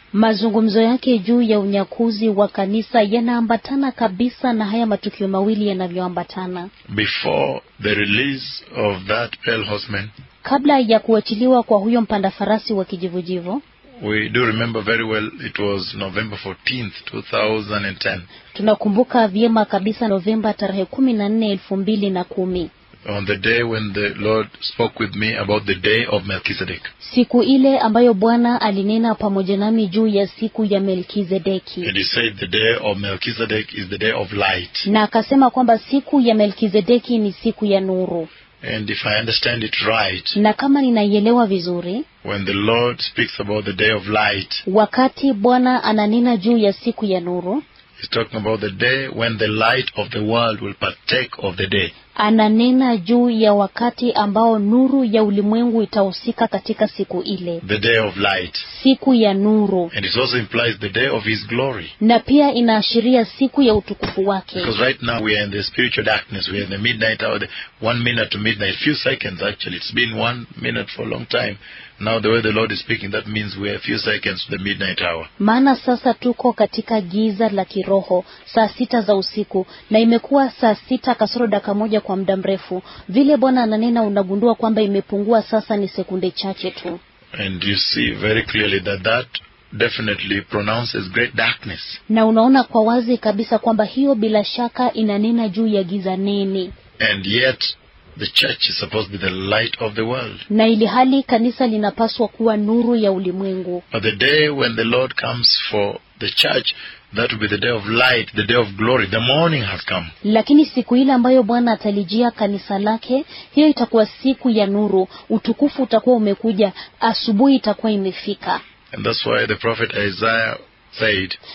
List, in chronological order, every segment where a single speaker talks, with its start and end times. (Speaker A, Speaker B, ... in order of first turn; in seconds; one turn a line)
Speaker A: 0.1-6.7
Speaker B: 6.9-10.1
Speaker A: 10.4-13.6
Speaker B: 14.0-18.3
Speaker A: 18.5-22.7
Speaker B: 23.0-26.9
Speaker A: 27.0-31.9
Speaker B: 31.8-34.9
Speaker A: 34.9-38.3
Speaker B: 38.6-40.4
Speaker A: 40.3-42.0
Speaker B: 42.2-44.6
Speaker A: 44.6-47.6
Speaker B: 48.0-51.9
Speaker A: 52.2-57.6
Speaker B: 57.6-58.6
Speaker A: 58.6-59.9
Speaker B: 59.9-61.9
Speaker A: 62.0-64.7
Speaker B: 64.5-75.3
Speaker A: 75.4-87.0
Speaker B: 87.3-92.0
Speaker A: 92.1-96.7
Speaker B: 97.0-100.5
Speaker A: 100.5-103.8
Speaker B: 103.9-110.1
Speaker A: 110.2-118.6
Speaker B: 118.9-121.4